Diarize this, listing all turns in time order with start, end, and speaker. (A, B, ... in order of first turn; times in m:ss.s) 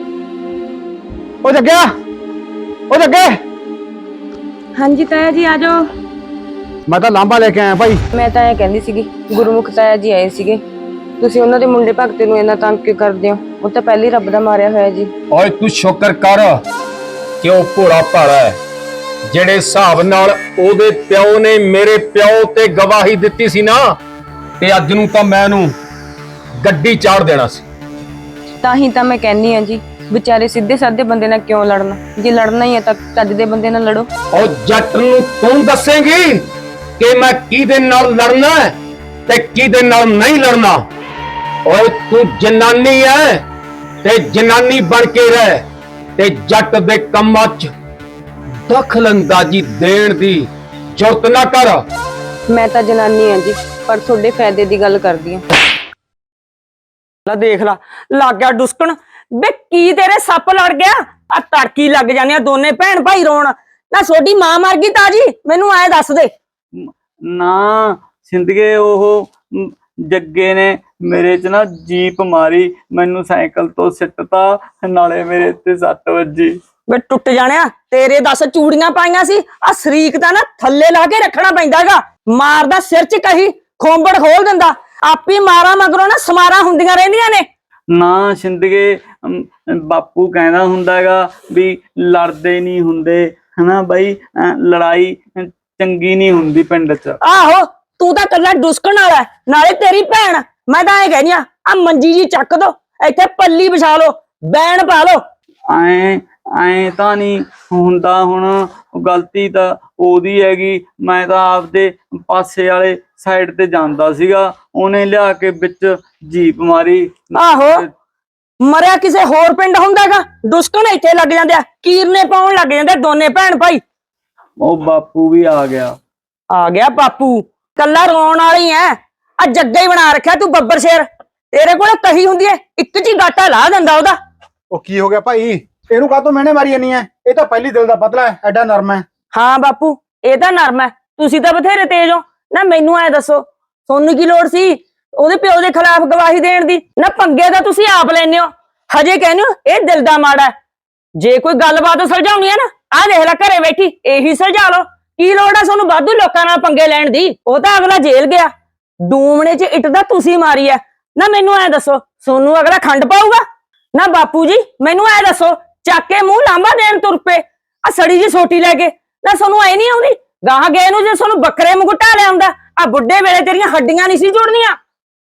0:01.4-0:01.9 A
0:02.9-0:03.4 A
0:04.8-0:05.8 B
0:06.9-0:08.0 A
0:08.1-0:10.6 B
0:11.2-0:15.1 B
0:15.3-0:16.6 C
0:17.4-0:18.6 C
0:19.3-0:24.0 C
0:24.6-0:25.7 C
0:26.6-0:27.6 C
0:28.6-0:34.1 B
0:34.3-0:36.4 C
0:37.0-0:38.8 C
0:39.3-0:40.8 C
0:41.7-0:43.4 C
0:44.0-0:45.6 C
0:46.2-0:47.7 C
0:48.7-0:51.8 C
0:52.5-0:55.4 B
0:57.3-1:06.3 D
1:06.8-1:16.6 E
1:16.9-1:27.5 D
1:27.9-1:37.2 E
1:37.2-1:45.3 D
1:45.7-1:57.8 E
1:57.4-1:57.9 D
1:58.6-2:03.8 D
2:04.6-2:06.0 E
2:06.5-2:14.2 D
2:14.7-2:19.0 A
2:19.3-2:30.5 D
2:31.2-2:38.5 D
2:39.0-2:54.8 D